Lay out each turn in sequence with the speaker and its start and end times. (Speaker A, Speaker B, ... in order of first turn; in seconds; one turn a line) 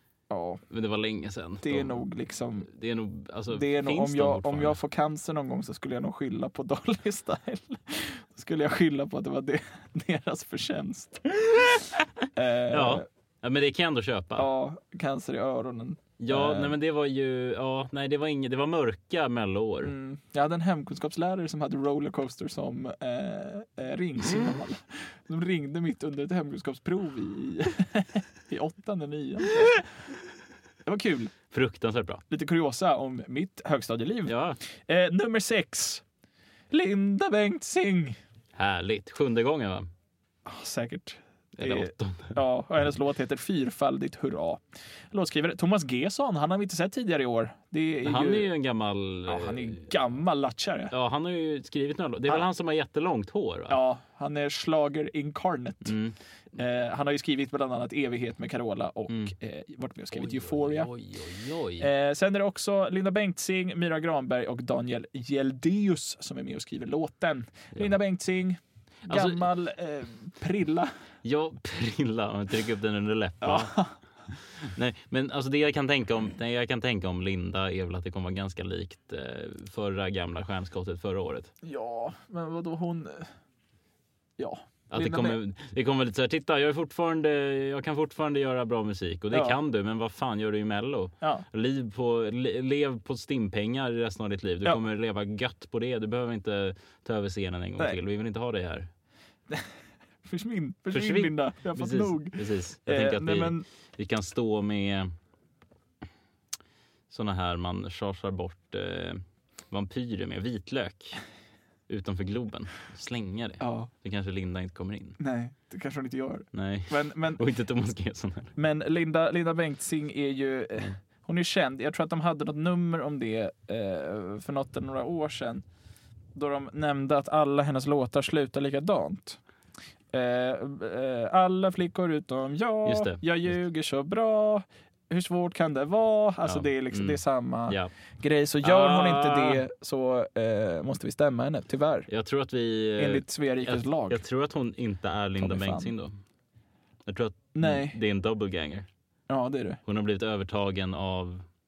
Speaker A: 0.3-0.6
Speaker B: 0.7-2.0
Speaker A: 1.6-2.7
Speaker B: 2.7-4.8
Speaker A: 3.5-13.1
Speaker B: 12.7-14.5
Speaker A: 14.4-16.8
Speaker B: 16.2-19.9
Speaker A: 19.8-29.9
Speaker A: 30.9-31.3
Speaker B: 31.5-32.2
Speaker A: 32.3-36.0
Speaker B: 34.3-34.6
Speaker A: 36.7-38.2
Speaker B: 38.5-39.9
Speaker A: 40.5-48.5
Speaker B: 41.6-42.4
Speaker B: 48.0-49.9
Speaker A: 49.3-50.9
Speaker B: 50.9-53.8
Speaker A: 53.7-56.0
Speaker B: 55.8-56.1
Speaker A: 56.5-60.9
Speaker B: 60.1-61.9
Speaker A: 61.8-70.9
Speaker B: 69.1-69.5
Speaker B: 71.2-73.8
Speaker A: 73.4-73.9
Speaker B: 74.3-81.5
Speaker A: 81.6-83.3
Speaker A: 84.4-85.4
Speaker B: 84.9-98.9
Speaker A: 89.3-89.6
Speaker A: 100.2-103.6
Speaker B: 100.9-105.1
Speaker B: 107.1-111.2
Speaker B: 111.9-115.2
Speaker A: 113.6-113.9
Speaker A: 115.2-117.4
Speaker B: 116.5-118.5
Speaker A: 118.5-125.6
Speaker A: 126.3-129.4
Speaker A: 130.1-142.1
Speaker B: 132.8-133.6
Speaker B: 136.4-137.9
Speaker B: 138.6-139.6
Speaker B: 142.1-146.2
Speaker A: 143.0-144.2
Speaker A: 145.4-145.9
Speaker B: 147.1-148.9
Speaker A: 147.5-148.0
Speaker A: 149.3-149.8
Speaker B: 149.8-151.4